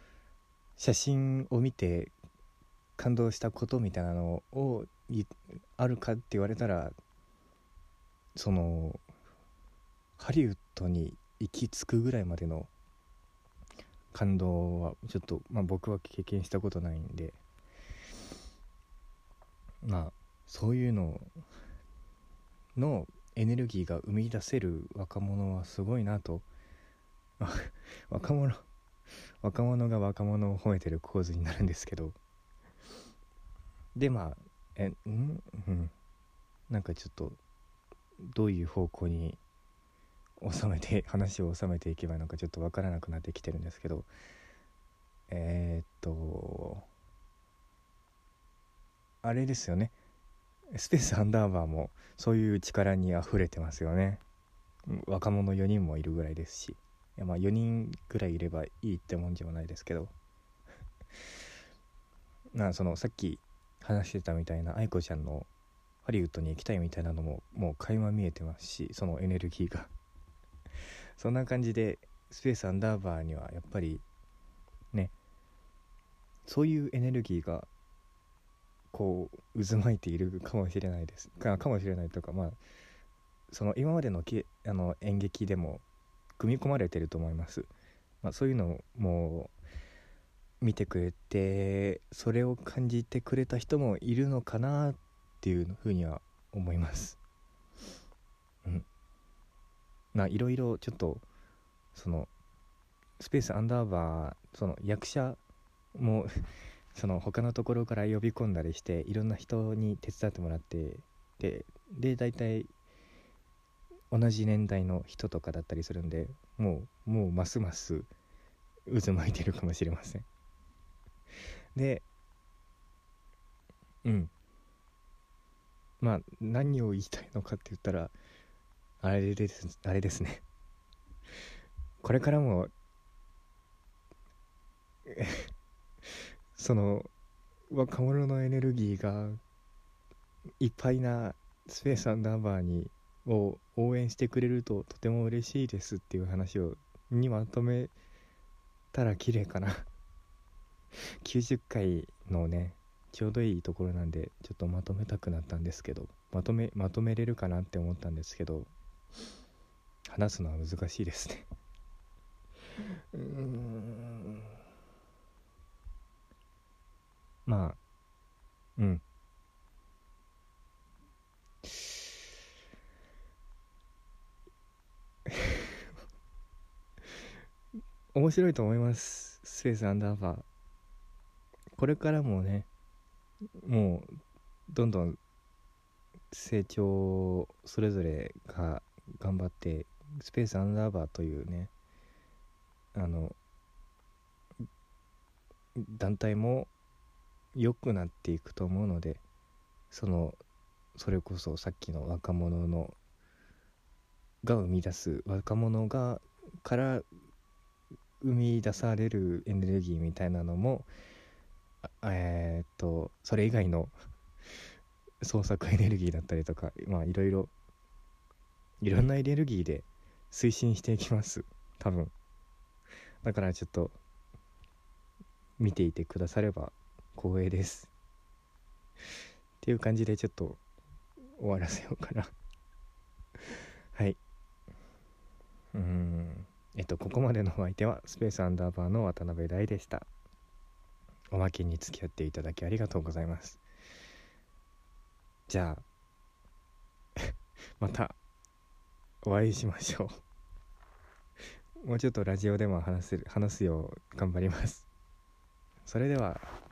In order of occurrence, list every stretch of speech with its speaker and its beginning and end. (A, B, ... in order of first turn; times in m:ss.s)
0:00.8-0:02.1 A
0:03.0-0:06.9 A
0:08.3-0:09.0 A
0:10.2-0:12.7 A
0:14.1-0:17.4 A
0:19.8-0:21.3 A
0:22.8-0:26.5 A
0:27.4-0:28.6 A
0:29.4-0:32.2 A
0:33.9-0:35.9 A
0:36.7-0:37.4 A
0:38.2-0:39.4 A
0:40.4-0:44.1 A
0:45.3-0:46.8 A
0:49.2-0:49.9 A
0:50.7-0:54.2 A
0:54.9-1:00.1 A
1:02.5-1:05.5 A
1:06.0-1:09.9 A
1:11.2-1:14.0 A
1:16.4-1:17.7 A
1:18.9-1:22.6 A
1:23.5-1:25.8 A
1:26.4-1:27.7 A
1:28.2-1:29.5 A
1:30.6-1:37.2 A
1:40.1-1:41.2 A
1:41.9-1:42.3 A
1:43.2-1:45.4 A
1:45.9-1:46.4 A
1:46.9-1:52.7 A
1:54.1-1:58.1 A
1:58.9-2:00.2 A
2:01.7-2:02.0 A
2:04.0-2:04.3 A
2:06.0-2:08.1 A
2:09.0-2:10.4 A
2:12.0-2:12.7 A
2:15.1-2:15.4 A
2:16.5-2:17.1 A
2:17.7-2:19.4 A
2:20.6-2:27.9 A
2:28.9-2:29.8 A
2:31.2-2:38.7 A
2:40.1-2:41.4 A
2:43.1-2:44.4 A
2:47.4-2:47.8 A
2:48.8-2:49.0 A
2:58.1-3:00.4 A
3:01.7-3:02.7 A
3:03.6-3:04.1 A
3:04.7-3:05.2 A
3:06.3-3:11.7 A
3:12.9-3:13.4 A
3:15.8-3:16.7 A
3:17.5-3:19.2 A
3:19.9-3:20.4 A
3:20.9-3:23.0 A
3:24.4-3:27.0 A
3:28.2-3:30.9 A
3:31.8-3:33.9 A
3:35.2-3:37.5 A
3:38.8-3:42.1 A
3:43.2-3:44.0 A
3:45.6-3:47.9 A
3:49.6-3:50.6 A
3:51.4-3:52.3 A
3:53.9-3:54.2 A
3:55.7-4:00.1 A
4:01.3-4:03.6 A
4:05.5-4:05.8 A
4:07.8-4:08.2 A
4:09.2-4:10.2 A
4:11.8-4:14.9 A
4:15.8-4:16.5 A